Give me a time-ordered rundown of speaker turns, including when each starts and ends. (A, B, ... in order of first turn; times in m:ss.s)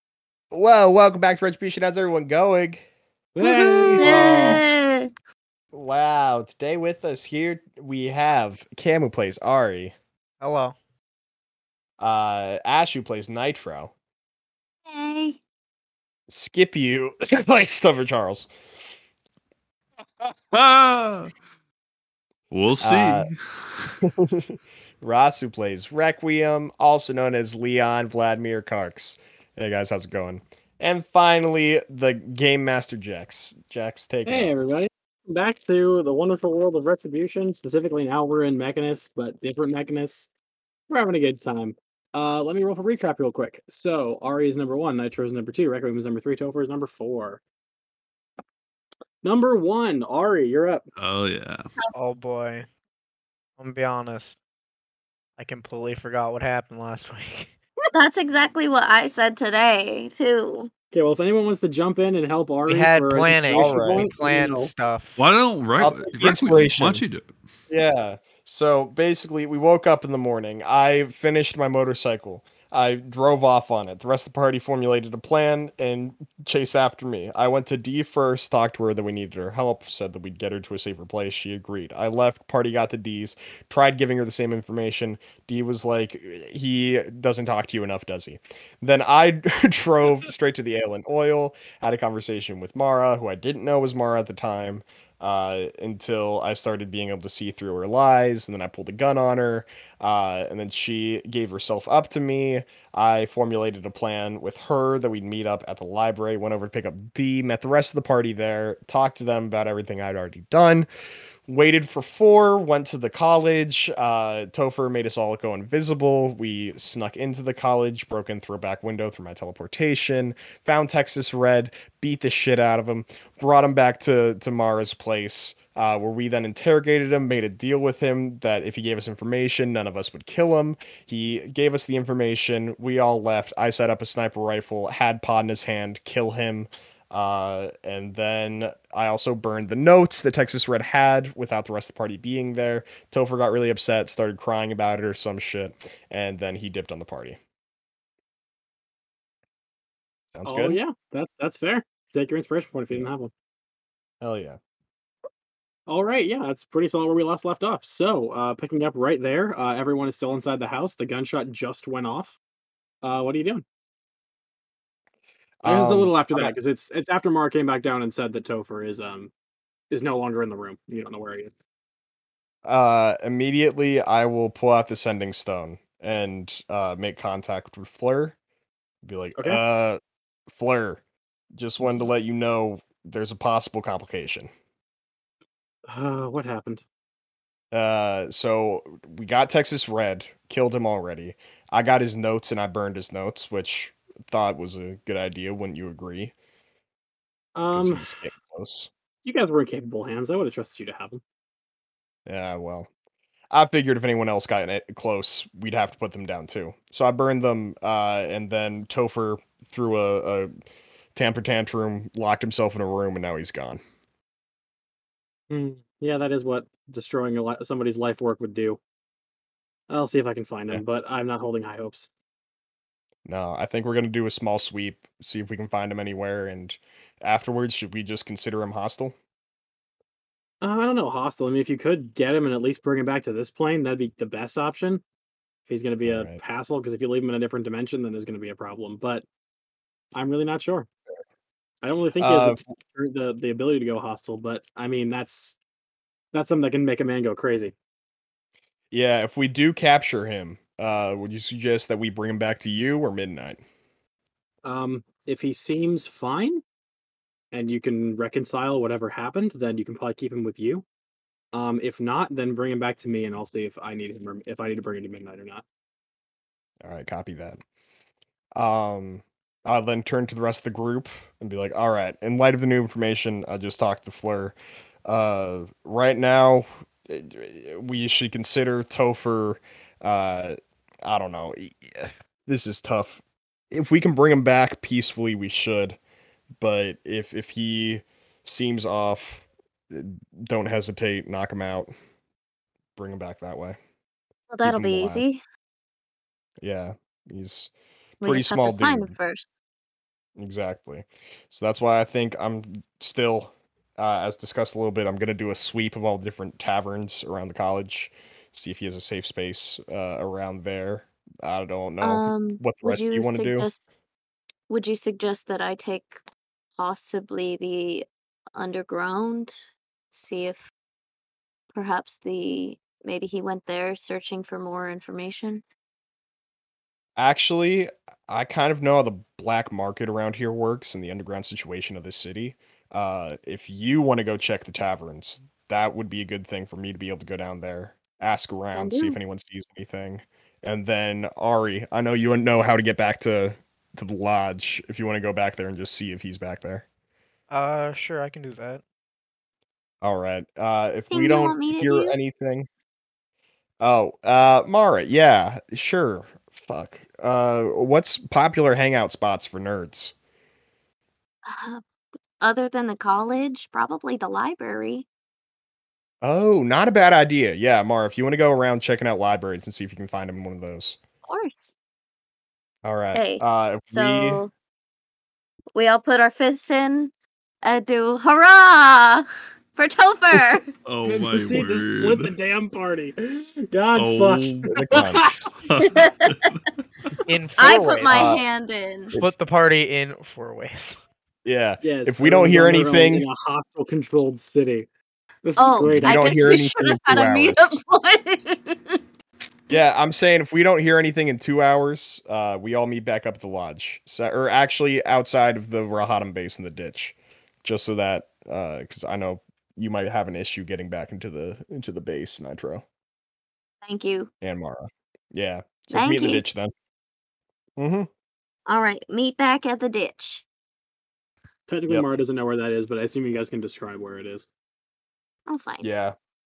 0:00.5-0:02.8 A
0:03.4-0:04.6 A
0:03.4-0:04.6 B
0:04.0-0:05.1 C
0:05.7-0:09.9 A
0:10.4-0:10.8 D
0:12.0-0:13.9 A
0:14.9-0:15.4 C
0:16.3-0:18.5 A
0:20.2-0:21.3 E
0:22.5-0:23.9 E
0:22.8-0:23.3 A
0:24.0-0:34.6 A
0:34.3-0:40.3 B
0:40.9-0:47.4 B
0:49.2-0:50.9 B
0:51.0-0:51.7 E
0:51.9-0:52.7 D
0:53.6-0:54.4 D
0:55.4-0:57.5 D
0:57.9-1:00.7 C
1:00.9-1:04.7 B
1:02.7-1:05.2 D
1:03.5-1:04.1 A
1:05.2-1:07.3 E
1:05.8-1:07.0 A
1:07.7-1:50.9 A
1:51.5-2:27.4 A
2:30.3-2:30.8 A
2:30.5-2:33.3 B
2:34.2-2:34.6 A
2:35.9-2:42.4 B
2:43.0-2:43.6 B
2:45.6-2:46.6 A
2:45.7-2:49.3 B
2:49.9-2:51.5 B
2:52.6-2:58.4 A
2:59.0-3:01.0 A
3:01.6-3:04.5 A
3:05.9-3:06.8 B
3:07.7-3:16.3 A
3:17.6-3:18.1 B
3:17.7-3:18.9 A
3:19.2-3:21.2 B
3:22.3-3:22.9 A
3:23.5-3:30.5 A
3:31.2-3:33.8 A
3:35.5-3:38.8 B
3:39.9-3:42.1 B
3:43.3-3:49.2 A
3:50.6-3:55.0 B
3:55.7-3:59.3 B
3:56.0-3:56.4 A
4:00.1-4:00.9 B
4:01.8-4:05.6 B
4:02.2-4:02.7 A
4:06.3-4:07.7 B
4:08.9-4:13.6 A
4:14.6-4:16.6 B
4:17.5-4:20.8 B
4:21.5-4:25.6 B
4:26.8-4:27.6 A
4:28.6-4:43.2 A
4:43.7-4:46.0 A
4:46.6-4:51.9 A
4:53.0-4:53.8 A
4:54.5-4:55.4 C
4:54.6-4:55.3 A
4:56.6-4:57.7 A
4:58.2-4:59.2 A
4:58.2-4:59.5 C
5:00.4-5:13.7 A
5:12.0-5:13.8 C
5:14.7-5:16.2 C
5:16.8-5:20.7 C
5:21.7-5:25.6 C
5:27.2-5:46.9 A
5:38.8-5:39.2 C
5:47.5-5:48.8 D
5:50.0-5:52.7 A
5:51.1-5:52.2 C
5:53.8-6:00.1 A
6:01.5-6:01.8 C
6:02.4-6:05.1 C
6:06.2-6:11.0 A
6:11.3-6:11.7 C
6:12.8-6:14.4 A
6:13.1-6:14.5 C
6:15.7-6:17.1 C
6:17.6-6:20.7 C
6:20.8-6:22.3 E
6:21.0-6:25.4 B
6:24.0-6:26.6 E
6:24.7-6:25.4 A
6:25.8-6:26.4 C
6:27.3-6:28.4 D
6:27.6-6:29.1 C
6:28.1-6:28.4 A
6:29.2-6:31.0 D
6:31.4-6:33.3 A
6:31.8-6:34.9 B
6:35.4-6:36.1 B
6:35.6-6:39.0 C
6:36.0-6:37.8 A
6:39.7-6:52.8 A
6:53.8-6:54.3 C
6:54.4-6:56.7 A
6:55.9-6:56.4 C
6:57.8-6:58.1 A
6:58.7-7:00.4 C
7:01.7-7:04.5 B
7:05.5-7:05.9 C
7:05.8-7:06.2 A